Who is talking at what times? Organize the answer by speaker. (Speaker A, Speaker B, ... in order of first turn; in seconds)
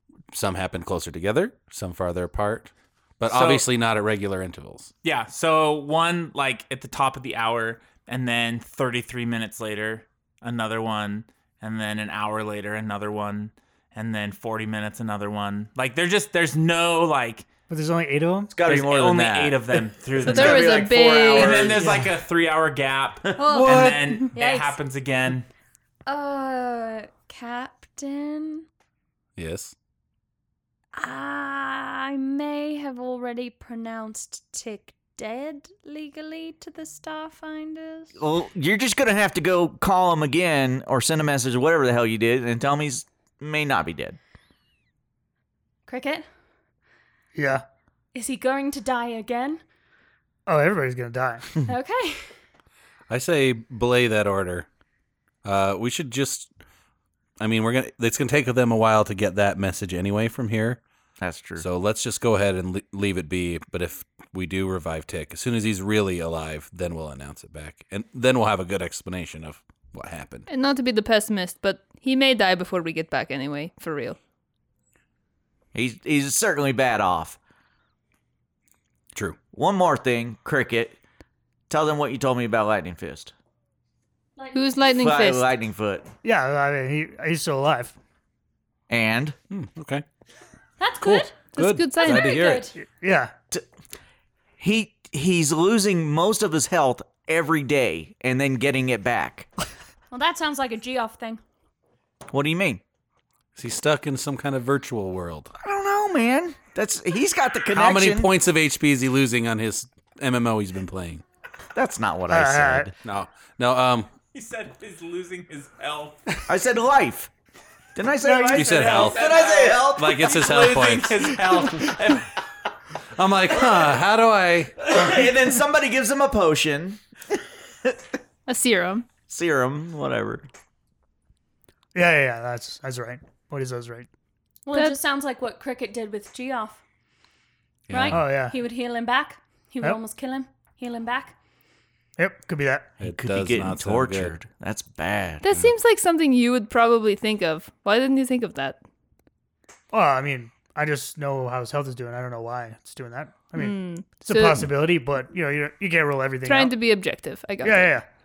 Speaker A: 0.3-4.9, 29.4-29.7, 53.1-54.7, 55.4-56.5, 57.4-60.8, 61.6-70.5, 89.5-90.0, 91.0-92.7, 103.5-105.5, 107.7-111.2, 113.0-114.1, 118.5-119.2, 119.9-121.8, 123.2-124.8, 137.9-138.2, 143.0-144.4
Speaker B: 3.3-3.6, 5.0-17.5, 18.6-25.5, 114.3-116.3, 118.6-122.3
Speaker C: 17.7-18.5, 21.7-22.1, 47.3-47.6, 50.5-51.5, 86.2-87.9, 92.9-93.3, 112.3-112.9, 118.2-119.1, 131.9-134.1, 138.1-138.6, 142.2-143.0, 149.9-156.8, 157.6-158.1
Speaker D: 18.5-22.0, 23.2-24.0, 38.1-44.2, 61.2-61.6, 75.7-77.4, 79.5-81.0, 81.7-83.3, 84.9-86.1, 88.9-89.3, 94.6-99.5, 102.3-102.8, 105.6-108.3, 111.7-112.9, 116.5-117.3, 118.0-120.3, 124.9-127.0, 129.3-130.5, 143.1-145.4
Speaker E: 20.2-21.7, 70.5-74.2, 84.5-85.5, 91.5-92.4, 128.5-129.1, 134.7-135.0, 145.4-148.8, 153.6-154.7, 156.4-158.0
Speaker F: 23.4-24.8, 26.1-28.6, 30.9-38.2, 45.9-46.2, 48.1-49.6, 51.6-52.3, 84.4-85.0, 90.8-91.3, 92.0-92.8, 100.1-101.4, 134.7-136.8, 137.9-141.3